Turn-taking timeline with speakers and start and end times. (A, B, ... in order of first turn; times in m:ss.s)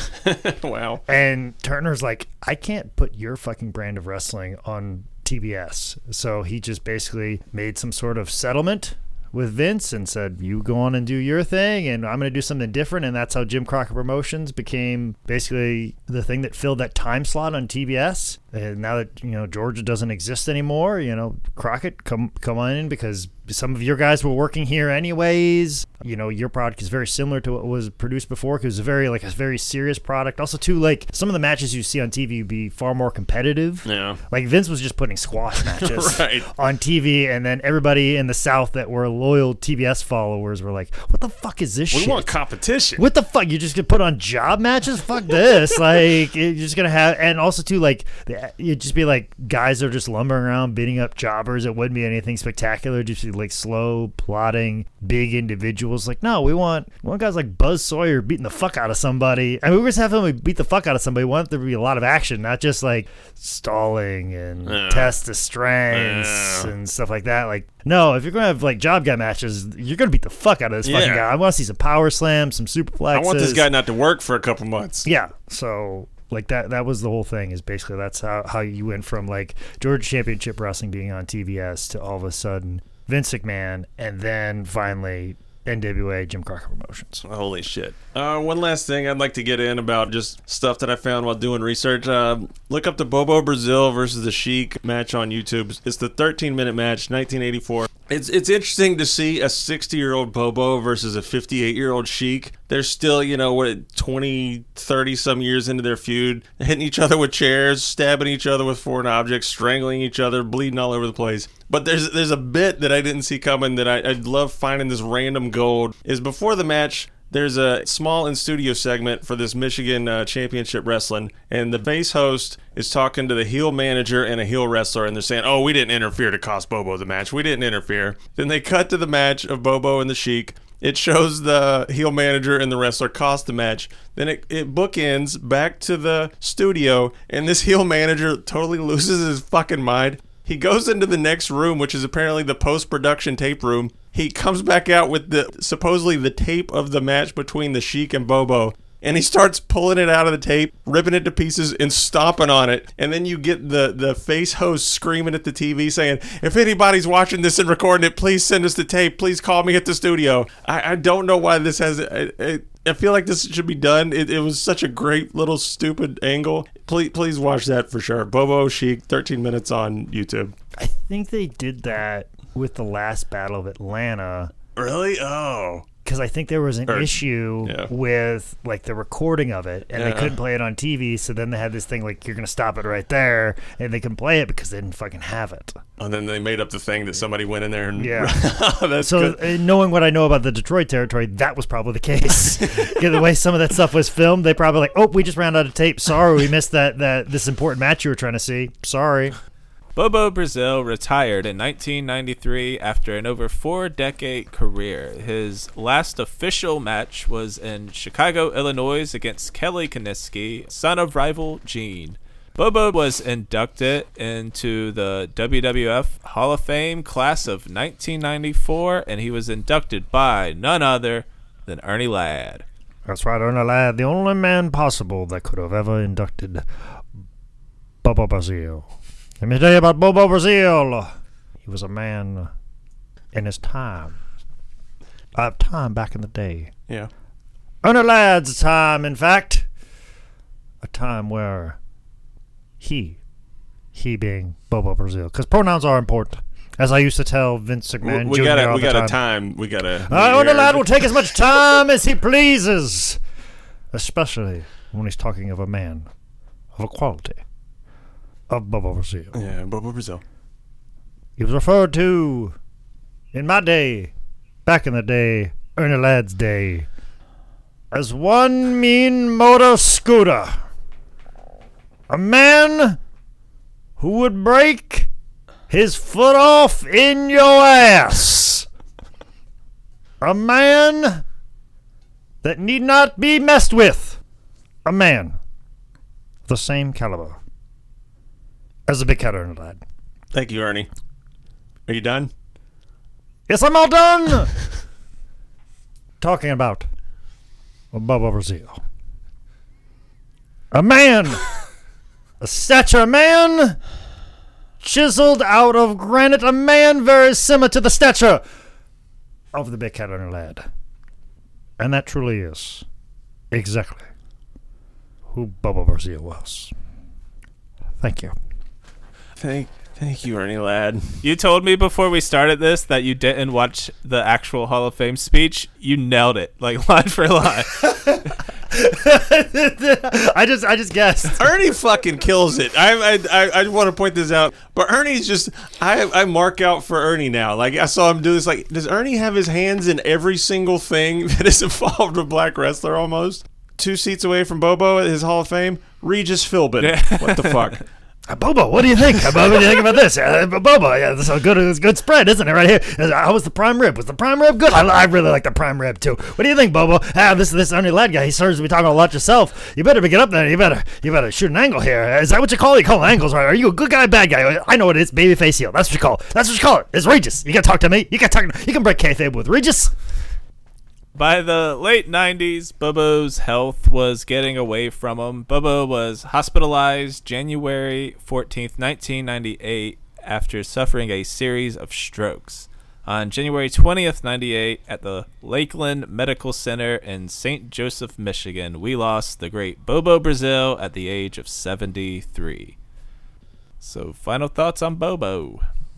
0:00.2-0:01.0 A
0:01.1-0:42.3 B
0:33.8-0:34.2 A
0:35.6-0:36.5 A
0:41.9-0:43.0 A
0:43.0-1:13.7 B
1:04.7-1:05.1 A
1:05.9-1:06.7 A
1:10.8-1:11.2 A
1:13.1-1:15.1 A
1:15.0-1:27.2 B
1:27.3-2:50.5 A
2:50.8-2:54.5 B
2:54.8-2:55.9 A
2:56.0-3:05.8 B
2:56.9-2:57.9 A
3:00.0-3:00.4 A
3:06.0-3:09.5 A
3:08.0-3:08.4 B
3:09.0-3:19.4 B
3:12.6-3:13.0 A
3:20.0-3:42.6 C
3:43.1-3:46.7 B
3:48.0-3:48.9 B
3:49.4-3:52.5 B
3:53.3-3:54.2 B
3:55.4-3:56.7 B
3:57.8-3:59.7 B
4:00.8-4:01.8 B
4:02.8-4:03.2 B
4:03.9-4:09.2 B
4:08.0-4:11.2 A
4:10.1-4:13.2 B
4:13.9-4:16.1 B
4:16.8-4:17.4 B
4:18.5-4:19.3 B
4:19.3-4:20.2 A
4:21.4-4:22.6 B
4:23.3-4:24.1 B
4:24.6-4:26.9 B
4:27.9-4:30.6 B
4:32.1-4:33.0 B
4:34.0-4:35.1 B
4:35.7-4:38.7 B
4:40.2-4:41.2 B
4:42.4-4:44.2 B
4:44.8-4:45.4 B
4:46.5-4:47.4 B
4:48.9-4:49.8 B
4:50.3-4:50.9 A
4:51.9-4:52.3 A
4:53.5-4:54.5 B
4:56.2-4:56.8 B
4:57.9-4:58.8 B
5:00.7-5:01.5 B
5:02.4-5:03.8 B
5:04.8-5:08.4 B
5:09.5-5:10.7 B
5:11.8-5:12.8 B
5:13.5-5:14.1 B
5:15.3-5:16.7 B
5:18.0-5:18.3 B
5:19.4-5:21.2 A
5:21.2-5:28.2 C
5:27.9-5:31.5 B
5:31.4-5:47.8 A
5:46.8-5:47.8 C
5:48.3-6:09.9 B
6:11.2-6:32.8 C
6:33.8-6:35.7 C